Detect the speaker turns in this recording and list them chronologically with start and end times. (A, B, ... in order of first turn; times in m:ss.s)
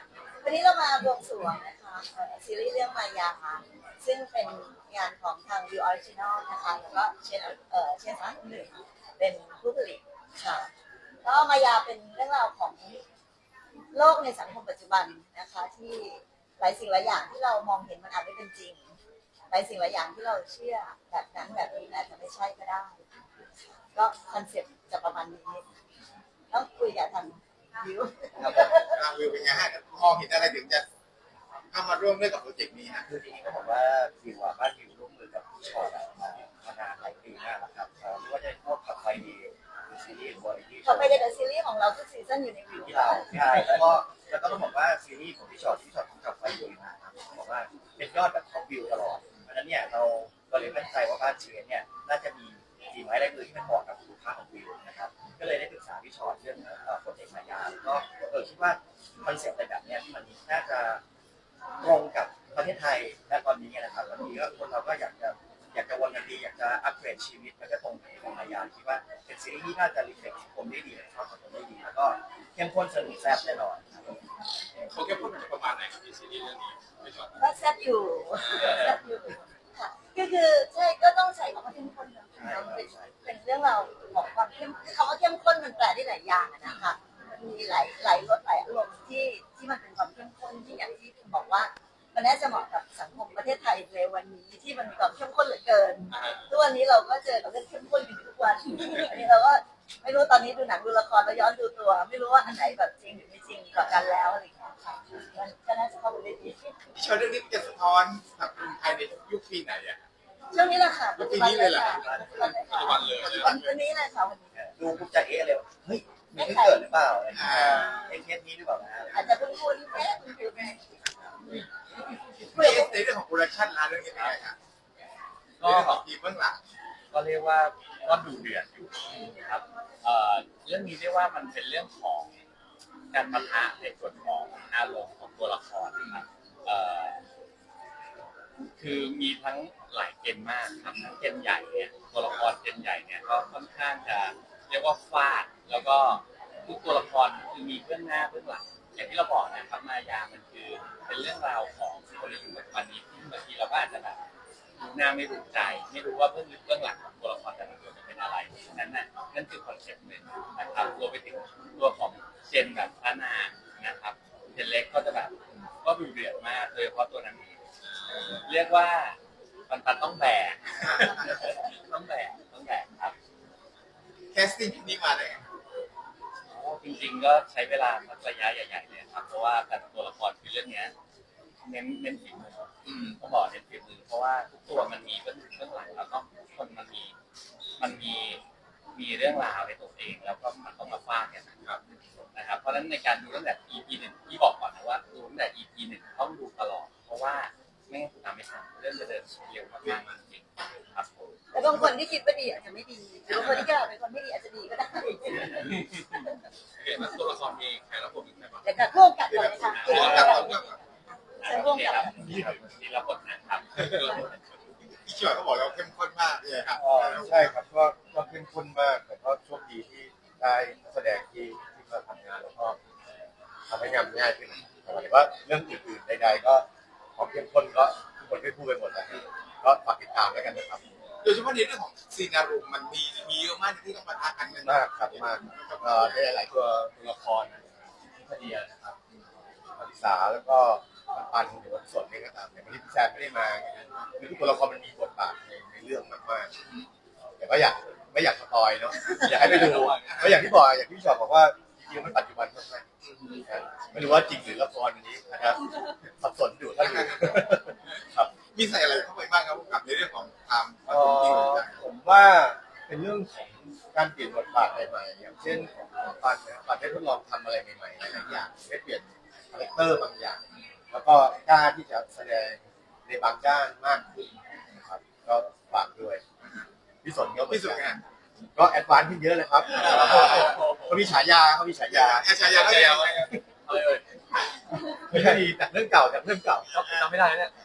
0:00.4-0:10.7 A
0:11.2-0:13.0 A
0:13.9-0:18.9 A
0:19.5-0:23.0 A
0:23.9-0:25.6 A
0:26.5-0:28.9 A
0:28.4-0:28.8 B
0:28.9-0:30.8 C
0:31.7-0:33.0 C
0:33.1-0:41.3 B
0:40.8-0:43.4 A
0:42.8-1:01.0 B
1:01.8-1:14.2 B
1:14.9-1:17.4 D
1:17.4-1:46.8 A
1:18.4-1:18.9 D
1:22.4-1:23.1 B
1:36.1-1:36.5 D
1:46.9-1:50.0 C
1:50.5-1:54.4 A
1:51.1-1:53.8 C
1:52.6-1:53.6 D
1:54.5-1:59.2 B
1:56.3-1:56.9 A
1:57.3-1:58.0 C
1:57.4-1:57.9 A
1:59.1-2:00.9 A
2:02.4-2:04.5 C
2:02.5-2:03.0 A
2:05.6-2:06.0 E
2:05.6-2:06.6 C
2:07.1-2:12.3 E
2:13.1-2:17.2 E
2:18.8-2:34.2 E
2:34.9-2:47.5 E
2:48.1-2:48.4 D
2:48.4-2:49.2 E
2:49.7-2:53.1 E
2:50.8-2:51.4 C
2:54.3-2:55.4 C
2:56.5-3:00.9 E
3:01.6-3:07.1 E
3:02.8-3:03.2 C
3:07.8-3:08.4 E
3:08.9-3:11.5 E
3:12.3-3:21.3 E
3:21.5-3:25.8 A
3:26.8-3:28.7 D
3:28.6-3:30.7 A
3:29.3-3:30.8 C
3:29.4-3:30.7 D
3:29.7-3:30.4 E
3:31.4-3:32.6 A
3:31.4-3:34.3 E
3:33.8-3:34.2 D
3:35.0-3:37.6 C
3:36.7-3:42.8 F
3:43.7-3:50.8 F
3:51.2-3:56.2 C
3:54.6-3:56.9 F
3:58.4-3:58.7 F
3:59.8-4:06.5 F
4:06.6-4:06.8 C
4:07.4-4:12.9 F
4:09.2-4:10.2 D
4:13.0-4:13.4 C
4:13.5-4:15.6 F
4:16.2-4:18.3 F
4:16.8-4:17.1 C
4:18.5-4:21.8 C
4:20.9-4:34.3 F
4:34.8-4:36.2 F
4:37.0-4:37.8 F
4:37.4-4:38.0 C
4:38.5-4:42.3 F
4:39.7-4:41.1 D
4:39.8-4:40.4 C
4:41.9-4:43.3 C
4:42.3-4:43.4 D
4:43.7-4:44.0 E
4:45.1-4:46.7 F
4:45.1-4:45.4 E
4:46.7-4:47.5 E